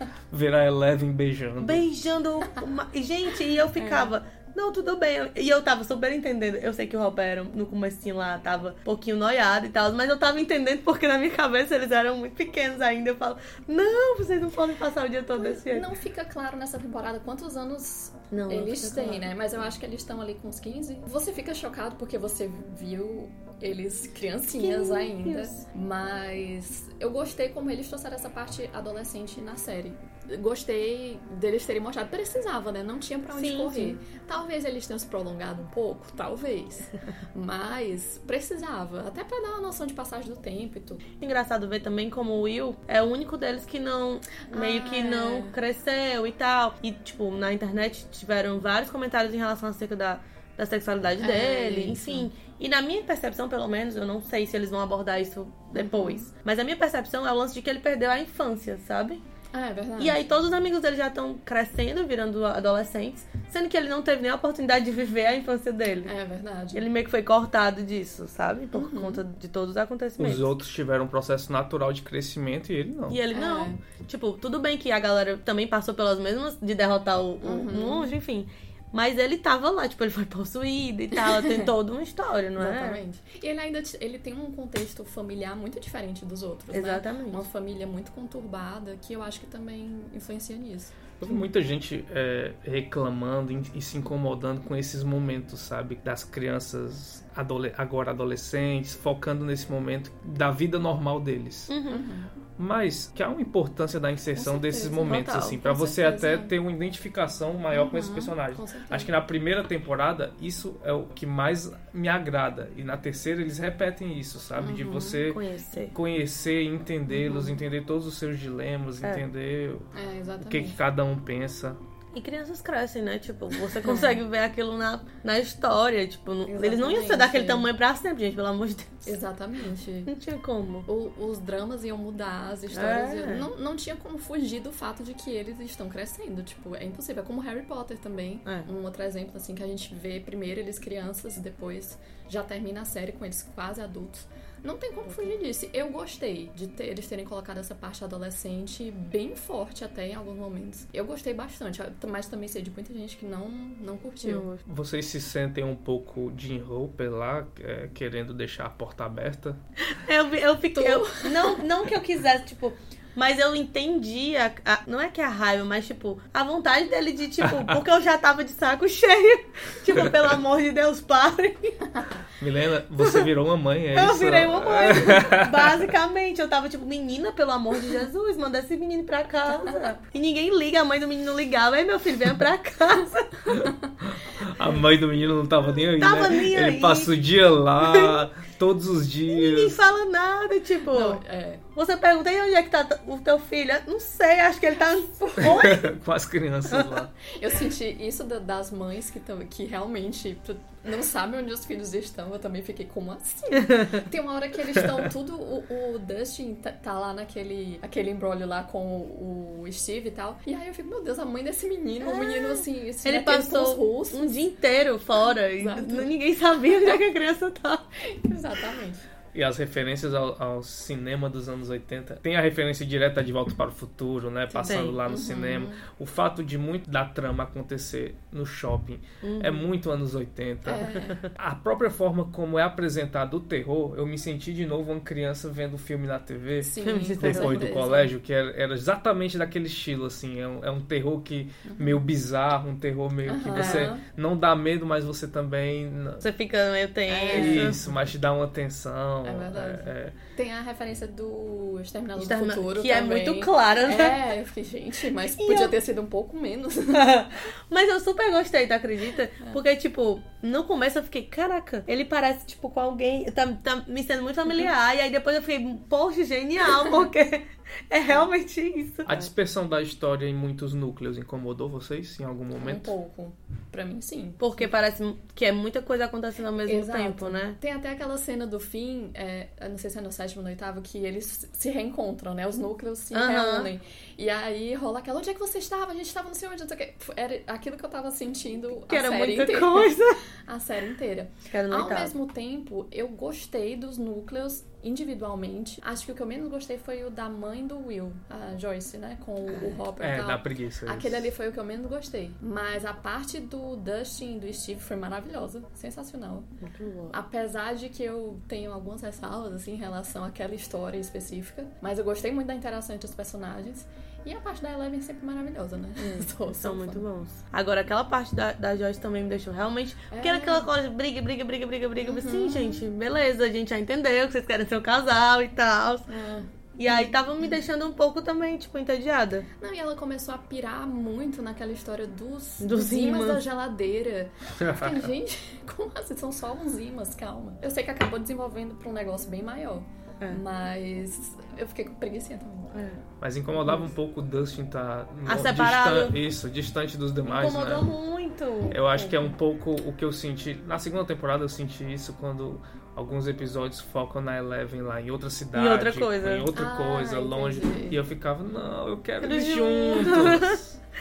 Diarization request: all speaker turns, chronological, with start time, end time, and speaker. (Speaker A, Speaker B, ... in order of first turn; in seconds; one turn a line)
Speaker A: 0.3-1.9
Speaker B: 1.6-15.9
Speaker C: 3.7-4.1
Speaker C: 15.3-41.0
Speaker B: 18.3-19.3
Speaker B: 24.5-25.6
Speaker B: 33.3-34.0
Speaker B: 41.2-59.2
Speaker C: 44.5-45.5
Speaker C: 51.2-52.3
Speaker C: 55.7-56.3
Speaker C: 59.5-60.2
Speaker B: 60.0-66.1
Speaker C: 66.0-66.9
Speaker B: 66.7-70.5
Speaker C: 68.7-69.2
Speaker A: 70.2-73.2
Speaker B: 73.1-83.0
Speaker C: 73.3-73.8
Speaker C: 77.4-78.2
Speaker C: 81.1-81.7
Speaker C: 82.6-91.5
Speaker B: 86.7-87.4
Speaker A: 91.2-101.7
Speaker B: 101.7-102.0
Speaker C: 101.9-102.3
Speaker A: 102.6-115.4
Speaker C: 104.3-106.5
Speaker B: 105.0-105.6
Speaker C: 107.7-109.1
Speaker C: 114.6-115.3
Speaker B: 115.3-115.9
Speaker A: 115.9-119.8
Speaker C: 117.1-117.6
Speaker C: 119.9-120.8
Speaker A: 120.4-121.8
Speaker B: 122.1-129.2
Speaker C: 123.8-124.2
Speaker C: 126.5-127.7
Speaker C: 129.1-130.1
Speaker B: 130.1-130.9
Speaker C: 130.9-154.5
Speaker B: 132.7-133.5
Speaker B: 154.2-154.6
Speaker A: 154.6-159.6
Speaker B: 159.9-171.9
Speaker C: 160.7-161.6
Speaker A: 167.4-167.8
Speaker A: 172.4-175.9
Speaker B: 173.0-173.2
Speaker B: 173.9-183.5
Speaker A: 183.4-189.8
Speaker B: 186.0-187.1
Speaker B: 187.8-188.2
Speaker B: 189.3-191.2
Speaker C: 190.9-191.6
Speaker B: 191.7-195.9
Speaker C: 195.2-195.7
Speaker A: 195.4-197.1
Speaker B: 196.7-197.0
Speaker C: 197.2-214.4
Speaker B: 203.6-204.0
Speaker B: 212.0-217.8
Speaker C: 215.6-216.1
Speaker C: 216.7-217.0
Speaker C: 218.1-219.1
Speaker A: 219.3-246.2
Speaker C: 224.5-225.8
Speaker B: 224.6-225.0
Speaker B: 229.2-229.7
Speaker C: 230.6-231.2
Speaker B: 230.8-231.3
Speaker C: 236.6-238.1
Speaker B: 236.8-237.7
Speaker C: 241.6-242.0
Speaker C: 243.2-244.0
Speaker B: 243.5-243.9
Speaker B: 246.2-247.8
Speaker C: 247.1-247.9
Speaker A: 247.3-250.1
Speaker C: 249.2-257.2
Speaker B: 252.2-254.3
Speaker B: 255.2-255.8
Speaker B: 256.9-269.3
Speaker A: 269.1-272.9
Speaker C: 272.5-274.7
Speaker B: 274.4-277.6
Speaker C: 276.6-306.5
Speaker B: 283.1-283.7
Speaker B: 288.9-290.2
Speaker B: 291.5-292.1
Speaker B: 299.5-299.8
Speaker A: 300.0-301.3
Speaker B: 306.6-307.1
Speaker C: 307.1-317.0
Speaker B: 316.0-326.1
Speaker C: 320.1-320.7
Speaker C: 322.0-322.8
Speaker C: 326.1-327.5
Speaker B: 326.8-329.4
Speaker C: 329.6-342.7
Speaker B: 332.6-333.4
Speaker A: 334.6-335.1
Speaker B: 342.7-343.0
Speaker A: 343.2-347.9
Speaker B: 345.2-346.2
Speaker B: 347.2-348.8
Speaker C: 348.7-349.3
Speaker A: 348.7-360.7
Speaker B: 355.5-356.5
Speaker C: 356.5-358.0
Speaker B: 359.2-360.6